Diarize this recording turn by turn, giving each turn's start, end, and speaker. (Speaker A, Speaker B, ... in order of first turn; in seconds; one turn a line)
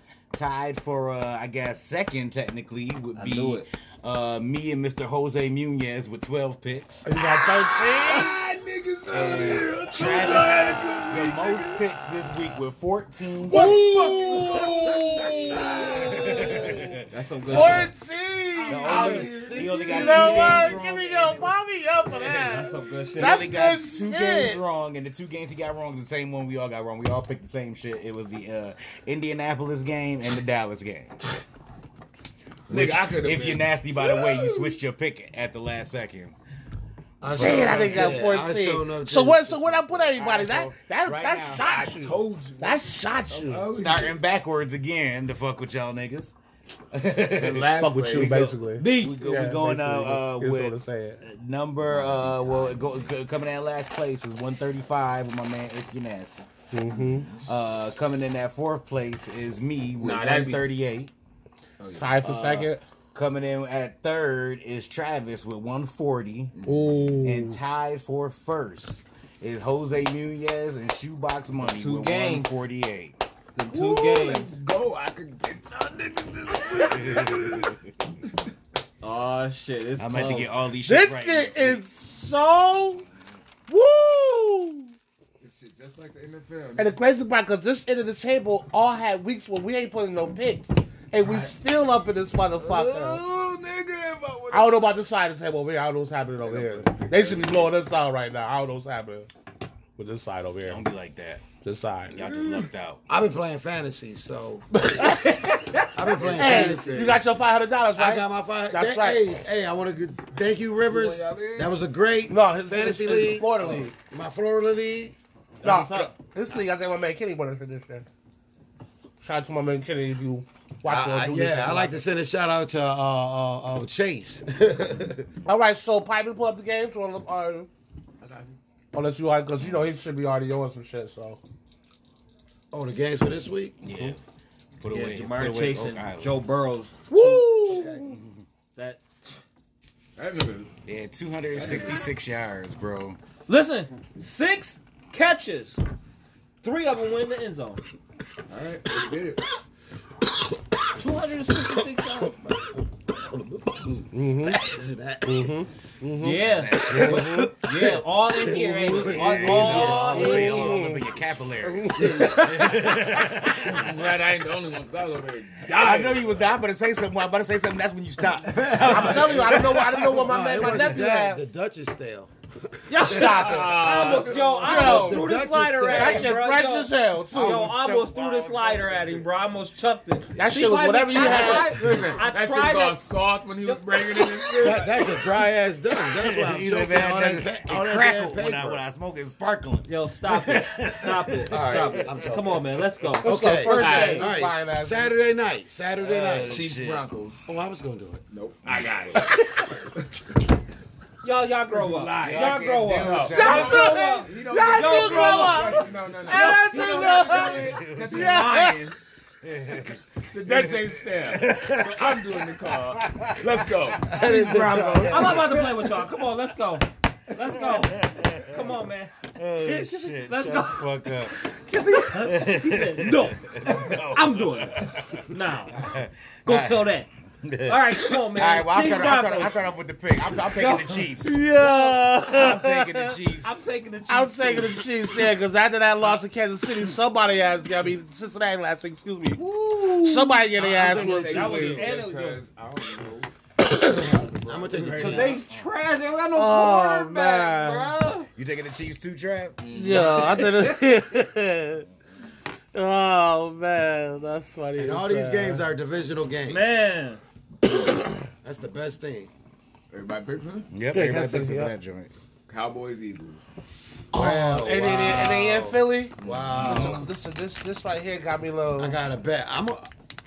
Speaker A: 0.3-7.0
Speaker B: 3.1-3.6
Speaker C: 7.0-8.3
Speaker D: 7.1-11.8
Speaker A: 9.1-13.8
Speaker E: 9.1-9.6
Speaker D: 13.5-16.8
Speaker C: 13.5-19.1
Speaker A: 16.1-17.0
Speaker B: 17.1-17.9
Speaker D: 17.5-17.9
Speaker D: 18.6-20.7
Speaker A: 18.7-20.8
Speaker E: 18.7-21.6
Speaker B: 18.9-19.5
Speaker C: 19.9-24.6
Speaker E: 22.1-22.4
Speaker B: 22.3-23.6
Speaker D: 22.8-23.1
Speaker A: 23.1-31.1
Speaker D: 32.7-34.8
Speaker A: 32.7-36.4
Speaker E: 37.2-39.6
Speaker A: 37.2-38.2
Speaker C: 37.4-43.7
Speaker A: 39.6-41.6
Speaker D: 41.6-44.2
Speaker A: 43.7-46.3
Speaker A: 46.9-56.3
Speaker D: 47.3-48.5
Speaker C: 47.8-51.2
Speaker B: 48.8-49.1
Speaker D: 51.9-53.1
Speaker C: 56.7-57.3
Speaker D: 56.9-57.6
Speaker A: 57.4-61.1
Speaker D: 60.0-60.7
Speaker D: 61.8-62.6
Speaker C: 61.9-62.8
Speaker A: 63.1-66.5
Speaker D: 66.5-67.3
Speaker C: 66.6-67.6
Speaker A: 67.2-73.2
Speaker B: 71.6-72.6
Speaker B: 73.5-74.5
Speaker D: 73.7-77.8
Speaker A: 76.9-77.7
Speaker B: 79.0-80.5
Speaker A: 80.0-81.8
Speaker C: 80.9-83.0
Speaker C: 83.7-84.9
Speaker D: 85.4-87.0
Speaker C: 86.8-93.2
Speaker D: 91.2-91.5
Speaker D: 92.6-94.9
Speaker C: 94.5-99.3
Speaker D: 96.4-97.8
Speaker C: 100.0-100.8
Speaker A: 100.7-101.4
Speaker C: 101.6-102.1
Speaker A: 102.1-103.0
Speaker D: 102.2-102.7
Speaker E: 103.1-104.7
Speaker C: 104.9-105.2
Speaker B: 105.0-105.9
Speaker E: 105.9-107.2
Speaker D: 106.0-107.2
Speaker C: 106.3-109.2
Speaker E: 108.0-115.1
Speaker D: 110.9-111.8
Speaker C: 112.3-113.9
Speaker B: 115.6-116.1
Speaker C: 115.6-118.1
Speaker C: 119.2-122.0
Speaker E: 120.8-125.3
Speaker C: 125.4-127.7
Speaker D: 128.2-128.6
Speaker C: 128.9-131.4
Speaker E: 132.7-133.8
Speaker A: 133.8-134.2
Speaker A: 134.8-136.4
Speaker B: 134.9-137.9
Speaker C: 137.1-138.1
Speaker E: 137.7-138.1
Speaker A: 138.0-138.4
Speaker B: 138.8-139.3
Speaker D: 140.2-140.7
Speaker A: 140.9-143.2
Speaker D: 141.5-142.0
Speaker B: 143.5-145.8
Speaker B: 146.6-147.8
Speaker D: 148.5-149.4
Speaker B: 150.9-152.4
Speaker E: 153.3-155.5
Speaker C: 154.1-154.6
Speaker C: 155.2-156.4
Speaker B: 156.2-160.9
Speaker A: 156.4-157.5
Speaker E: 156.9-160.3
Speaker C: 158.5-161.0
Speaker A: 159.1-163.9
Speaker C: 161.6-162.7
Speaker E: 162.0-162.7
Speaker D: 163.6-166.5
Speaker A: 165.7-170.0
Speaker D: 168.4-169.4
Speaker C: 168.8-171.4
Speaker E: 168.9-173.9
Speaker A: 170.6-170.9
Speaker B: 172.9-183.0
Speaker C: 173.0-173.9
Speaker D: 173.2-175.0
Speaker E: 174.6-176.3
Speaker C: 174.6-175.2
Speaker C: 175.9-177.7
Speaker A: 177.3-179.3
Speaker C: 180.3-181.8
Speaker D: 181.2-185.1
Speaker B: 183.6-184.6
Speaker E: 184.6-188.8
Speaker A: 186.1-192.0
Speaker B: 189.9-194.3
Speaker E: 191.5-192.6
Speaker D: 191.5-192.0
Speaker E: 193.2-196.7
Speaker C: 193.2-195.1
Speaker D: 193.7-194.2
Speaker A: 196.0-197.0
Speaker D: 196.4-197.4
Speaker E: 197.4-198.2
Speaker D: 198.3-200.2
Speaker A: 198.7-199.4
Speaker B: 201.2-207.6
Speaker D: 201.7-208.9
Speaker A: 202.2-203.9
Speaker C: 203.3-208.8
Speaker A: 207.5-208.4
Speaker A: 209.4-213.9
Speaker D: 210.2-215.5
Speaker E: 214.1-215.8
Speaker C: 214.2-215.5
Speaker B: 215.1-225.9
Speaker A: 217.4-218.7
Speaker A: 219.4-221.4
Speaker A: 222.0-231.4
Speaker B: 226.4-227.1
Speaker B: 227.7-229.6
Speaker B: 230.3-232.1
Speaker C: 231.2-233.2
Speaker A: 232.2-233.6
Speaker B: 233.4-234.8
Speaker C: 234.1-239.4
Speaker B: 239.4-240.5
Speaker C: 240.0-241.8
Speaker E: 240.6-241.9
Speaker D: 240.6-245.4
Speaker B: 241.1-242.4
Speaker E: 244.4-245.4
Speaker C: 244.9-245.2
Speaker B: 244.9-248.3
Speaker A: 245.2-245.7
Speaker C: 246.3-247.9
Speaker A: 248.4-250.5
Speaker D: 249.6-250.5
Speaker C: 249.7-251.9
Speaker C: 252.7-255.6
Speaker E: 254.8-256.9
Speaker B: 256.5-257.2
Speaker E: 258.4-259.3
Speaker D: 259.9-260.7
Speaker A: 260.7-262.1
Speaker C: 260.9-261.7
Speaker D: 262.5-263.4
Speaker C: 264.1-269.0
Speaker E: 264.1-267.1
Speaker D: 266.2-266.9
Speaker A: 266.5-267.1
Speaker E: 268.8-269.9